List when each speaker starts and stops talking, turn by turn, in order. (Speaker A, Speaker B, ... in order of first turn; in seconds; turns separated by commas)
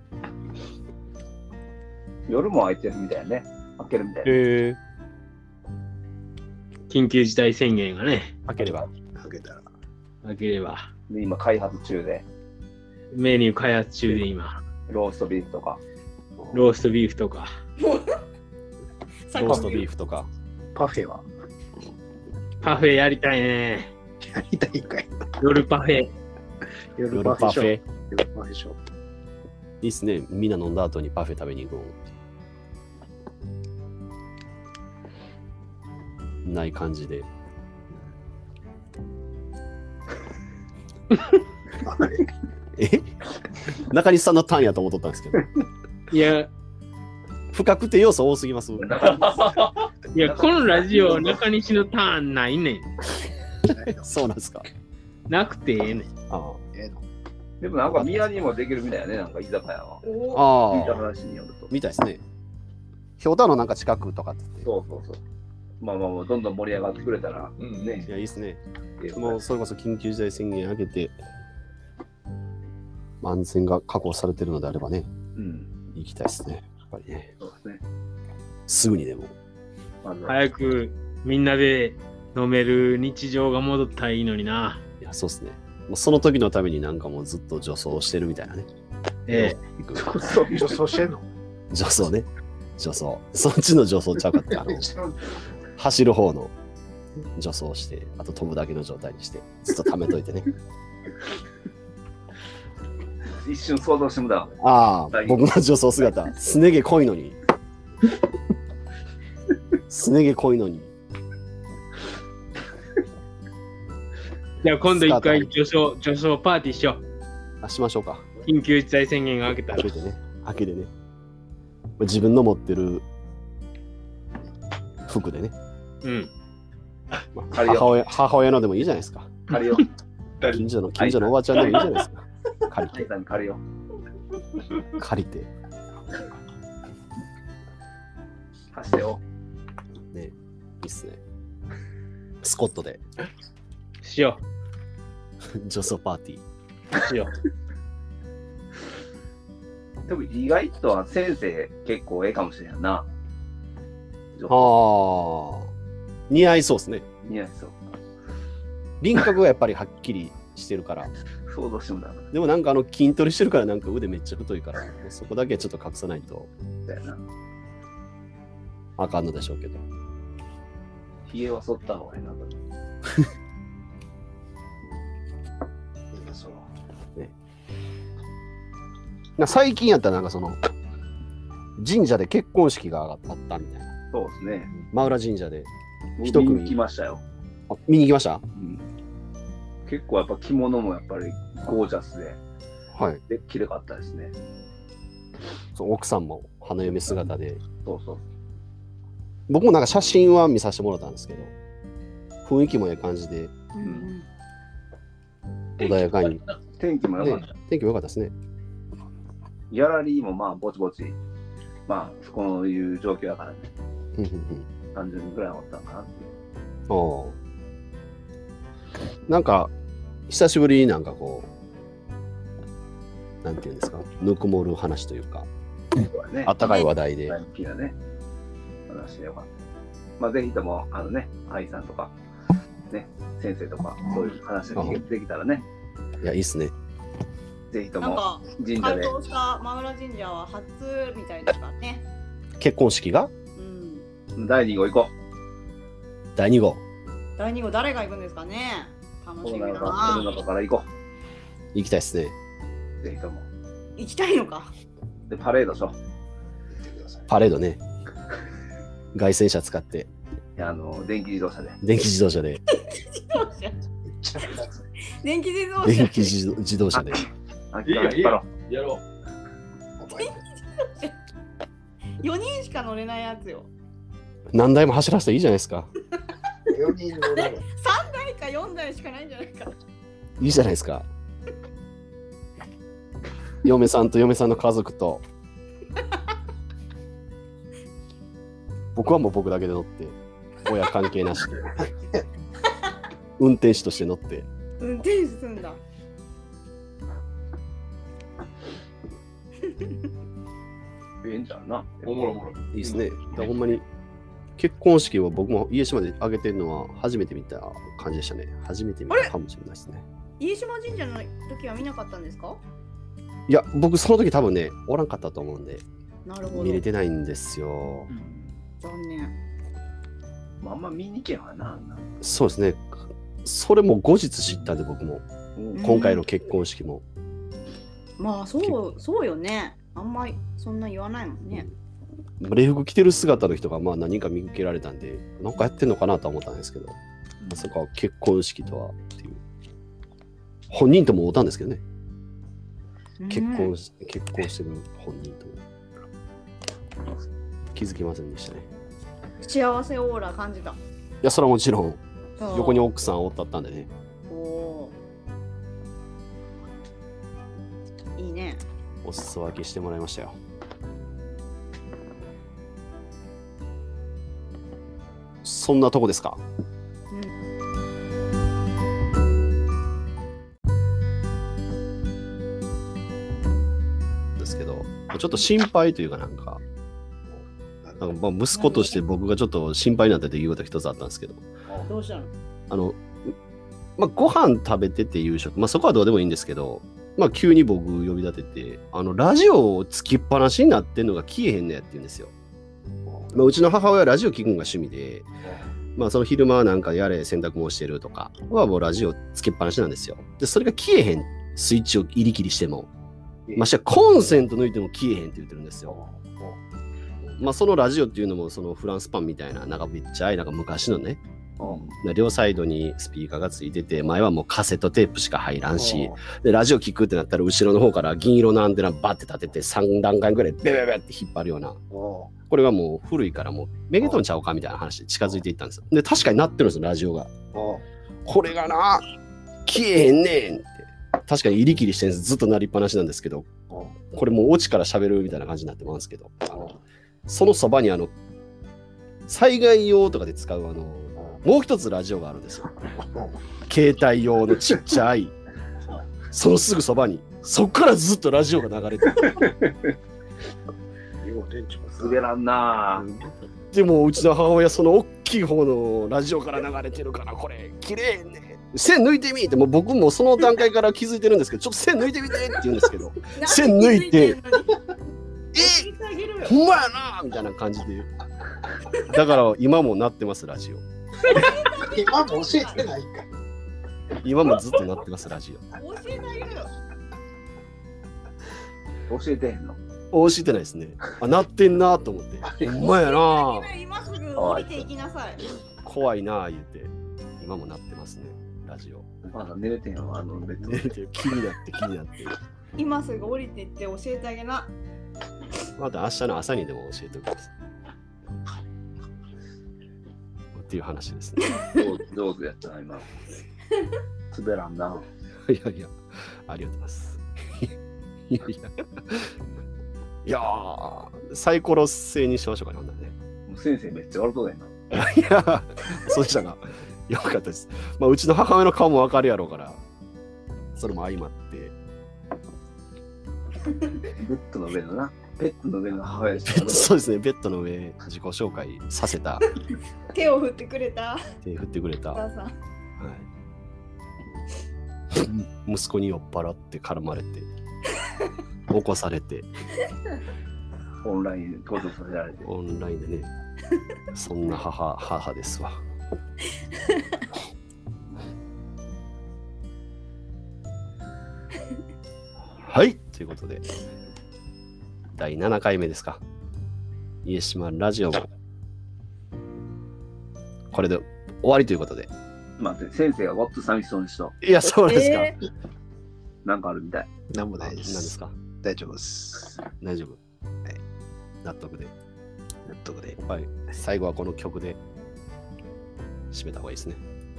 Speaker A: 2.3-4.3, Speaker B: 4.2-4.8, Speaker C: 6.9-8.5, Speaker B: 8.5-8.9, Speaker D: 9.2-9.7, Speaker C: 10.2-10.9, Speaker A: 11.1-12.3, Speaker C: 13.1-14.6, Speaker A: 14.9-15.8, Speaker B: 16.4-16.6, Speaker C: 16.5-17.5, Speaker E: 17.8-18.2, Speaker E: 19.3-19.9, Speaker B: 19.3-20.3, Speaker D: 20.8-21.2, Speaker C: 22.6-23.9, Speaker D: 24.2-25.2, Speaker C: 25.4-26.1, Speaker D: 27.0-28.8, Speaker B: 27.1-27.8, Speaker B: 29.8-32.0, Speaker B: 36.5-37.3, Speaker D: 41.8-42.3, Speaker B: 42.8-43.1, Speaker B: 43.7-45.5, Speaker C: 46.1-46.5, Speaker B: 47.5-49.1, Speaker A: 48.8-51.4, Speaker F: 49.1-49.9, Speaker C: 50.1-52.9, Speaker D: 53.7-54.0, Speaker B: 53.7-54.7, Speaker C: 55.3-56.1, Speaker B: 56.3-56.6, Speaker D: 56.7-57.0, Speaker A: 57.6-60.0, Speaker B: 57.9-58.4, Speaker E: 60.0-60.5, Speaker B: 60.3-61.1, Speaker A: 60.7-61.7, Speaker B: 61.7-62.2, Speaker B: 63.2-64.7, Speaker A: 64.6-65.2, Speaker A: 65.8-68.1, Speaker F: 67.6-68.1, Speaker B: 68.1-68.6, Speaker A: 69.0-69.4, Speaker B: 69.1-71.2, Speaker B: 73.2-75.1, Speaker A: 75.4-75.7, Speaker B: 75.9-77.3, Speaker A: 77.4-77.8, Speaker B: 78.7-79.3, Speaker A: 80.0-80.4, Speaker C: 80.3-84.8, Speaker B: 85.0-88.7, Speaker C: 89.3-89.6, Speaker B: 89.3-90.1, Speaker A: 89.9-90.8, Speaker D: 90.5-91.3, Speaker B: 91.7-92.3, Speaker B: 92.8-94.9, Speaker B: 95.8-96.5, Speaker B: 97.4-100.5, Speaker A: 103.4-104.6, Speaker B: 104.6-107.4, Speaker A: 105.1-105.4, Speaker B: 109.9-110.9, Speaker C: 114.6-117.0, Speaker B: 114.8-115.5, Speaker B: 117.6-118.3, Speaker C: 118.5-119.9, Speaker B: 119.7-120.9, Speaker B: 122.0-123.0, Speaker B: 125.1-125.5, Speaker C: 126.0-126.3, Speaker B: 127.4-129.4, Speaker A: 127.5-128.0, Speaker A: 129.5-129.9, Speaker A: 130.4-132.0, Speaker B: 130.5-133.1, Speaker A: 132.9-133.6, Speaker B: 135.0-135.5, Speaker A: 138.7-139.2, Speaker B: 140.1-141.2, Speaker B: 142.4-143.0, Speaker C: 144.0-144.4, Speaker B: 145.5-146.4, Speaker C: 147.0-147.3, Speaker A: 150.1-153.1, Speaker A: 154.4-154.7, Speaker B: 154.5-155.7, Speaker B: 156.3-157.1, Speaker A: 157.2-157.8, Speaker B: 159.0-161.1, Speaker A: 161.5-162.3, Speaker B: 162.3-166.5, Speaker A: 166.9-167.2, Speaker B: 169.0-169.8, Speaker A: 171.3-172.6, Speaker D: 176.1-176.7, Speaker B: 179.4-180.6, Speaker B: 181.8-183.9, Speaker A: 184.1-184.8, Speaker B: 184.9-185.7, Speaker A: 186.2-187.2, Speaker B: 186.2-186.8, Speaker B: 187.7-188.4, Speaker A: 188.6-188.8, Speaker A: 189.9-192.4, Speaker B: 192.9-193.2, Speaker A: 193.3-194.3, Speaker B: 195.8-197.6, Speaker A: 197.8-198.2, Speaker B: 199.5-201.5, Speaker B: 202.4-203.5, Speaker E: 203.7-204.3, Speaker A: 203.8-204.1, Speaker B: 205.8-206.4, Speaker F: 205.8-206.6, Speaker A: 206.8-207.5, Speaker B: 207.2-208.3, Speaker A: 209.7-211.2, Speaker A: 211.9-213.7, Speaker B: 214.2-214.7, Speaker A: 214.9-216.3, Speaker B: 216.9-217.4, Speaker B: 219.3-219.7, Speaker B: 220.3-221.5, Speaker B: 223.4-225.5, Speaker A: 226.0-226.6, Speaker B: 226.4-227.4, Speaker E: 226.6-226.9, Speaker A: 227.3-228.0, Speaker A: 228.9-229.5, Speaker A: 230.2-232.1, Speaker A: 232.9-235.7, Speaker B: 234.8-235.0, Speaker B: 236.2-236.7, Speaker A: 237.7-239.1, Speaker E: 238.0-242.1, Speaker B: 242.6-243.3, Speaker E: 243.6-244.1, Speaker A: 244.4-245.1, Speaker B: 246.4-246.8, Speaker E: 247.4-250.4, Speaker A: 249.4-250.9, Speaker B: 251.7-252.3, Speaker A: 253.0-253.5, Speaker E: 254.0-254.7, Speaker A: 255.3-255.9, Speaker D: 256.8-257.3, Speaker B: 257.3-257.8, Speaker B: 259.1-260.1, Speaker A: 260.6-261.8, Speaker B: 261.8-262.6, Speaker E: 262.7-263.8, Speaker D: 264.1-264.8, Speaker E: 265.2-266.4, Speaker B: 265.8-267.3, Speaker A: 266.9-268.5, Speaker F: 267.9-269.0, Speaker D: 270.0-270.3, Speaker E: 270.1-271.2, Speaker E: 272.2-273.7, Speaker B: 274.5-275.9, Speaker D: 276.7-277.6, Speaker E: 277.4-279.8, Speaker B: 280.4-281.1, Speaker B: 283.6-285.2, Speaker B: 288.9-291.8, Speaker B: 293.4-294.5, Speaker E: 294.8-295.8, Speaker A: 301.2-302.3, Speaker F: 302.0-303.1, Speaker B: 302.7-303.9, Speaker B: 304.6-310.1, Speaker E: 310.4-312.6, Speaker B: 313.5-315.8, Speaker E: 316.2-316.9, Speaker B: 316.5-318.1, Speaker A: 318.1-318.6, Speaker E: 318.8-319.4, Speaker A: 320.6-322.1, Speaker B: 322.2-325.2, Speaker A: 325.6-325.9, Speaker E: 325.8-326.2, Speaker B: 325.8-327.0, Speaker E: 328.2-331.7, Speaker B: 332.4-337.0, Speaker A: 337.4-337.7, Speaker B: 337.5-339.4, Speaker B: 340.7-341.8, Speaker E: 343.2-343.7, Speaker B: 343.3-345.6, Speaker B: 347.7-348.7, Speaker E: 349.4-350.8, Speaker B: 351.2-353.9, Speaker E: 352.4-352.9, Speaker E: 354.3-355.0, Speaker E: 358.2-358.6, Speaker B: 359.0-360.4, Speaker B: 365.4-366.4, Speaker B: 374.4-376.6, Speaker B: 378.0-381.4, Speaker E: 378.5-379.0, Speaker E: 381.9-382.3, Speaker B: 382.7-383.3, Speaker B: 384.0-392.3, Speaker B: 393.3-395.3, Speaker B: 396.0-402.9, Speaker B: 403.6-406.0, Speaker D: 405.9-406.6, Speaker B: 407.2-411.2, Speaker A: 411.6-411.9, Speaker B: 411.9-421.8, Speaker D: 415.8-416.2, Speaker D: 421.9-422.3, Speaker B: 422.5-427.3, Speaker D: 427.5-427.8, Speaker B: 428.2-429.1, Speaker B: 429.7-433.5, Speaker D: 433.7-434.0, Speaker B: 434.1-436.7, Speaker B: 437.3-438.1, Speaker B: 439.3-442.7, Speaker D: 443.0-443.4, Speaker B: 443.7-445.3, Speaker B: 446.3-449.5, Speaker A: 449.3-449.7, Speaker D: 451.2-452.2, Speaker A: 452.0-453.1, Speaker B: 453.0-464.4, Speaker E: 463.3-464.8, Speaker B: 465.5-465.9, Speaker E: 465.6-466.6, Speaker B: 466.4-468.1, Speaker B: 469.0-470.8, Speaker E: 471.2-472.9, Speaker D: 471.3-473.3, Speaker B: 474.2-475.6, Speaker E: 475.8-476.7, Speaker A: 479.1-479.8, Speaker B: 480.1-483.7, Speaker E: 482.8-485.4, Speaker A: 484.4-484.9, Speaker B: 485.8-489.1, Speaker A: 489.3-490.9, Speaker B: 490.6-492.4, Speaker E: 492.8-494.7, Speaker B: 495.8-497.5, Speaker B: 500.5-501.6, Speaker A: 501.7-503.1, Speaker A: 504.3-505.1, Speaker B: 505.5-507.7, Speaker B: 508.3-509.3, Speaker B: 510.2-513.1, Speaker A: 513.5-514.7, Speaker B: 514.9-519.8, Speaker B: 520.8-521.7, Speaker A: 524.1-526.9, Speaker B: 526.4-529.5, Speaker E: 530.1-531.2, Speaker B: 531.4-532.2, Speaker E: 532.1-532.6, Speaker B: 533.0-533.3, Speaker B: 535.2-537.5, Speaker B: 538.7-539.5, Speaker A: 541.0-542.5, Speaker B: 542.5-543.3, Speaker B: 544.1-545.8, Speaker B: 552.6-553.7, Speaker B: 555.1-556.2, Speaker B: 557.2-558.3, Speaker B: 560.7-562.1, Speaker A: 562.6-564.4, Speaker B: 564.4-565.3, Speaker E: 564.6-565.4, Speaker A: 566.5-567.1, Speaker D: 567.3-568.1, Speaker B: 567.6-568.3, Speaker D: 568.6-569.6, Speaker B: 569.8-570.2, Speaker B: 571.4-571.9, Speaker D: 572.7-573.2, Speaker B: 573.2-574.8, Speaker B: 576.3-577.0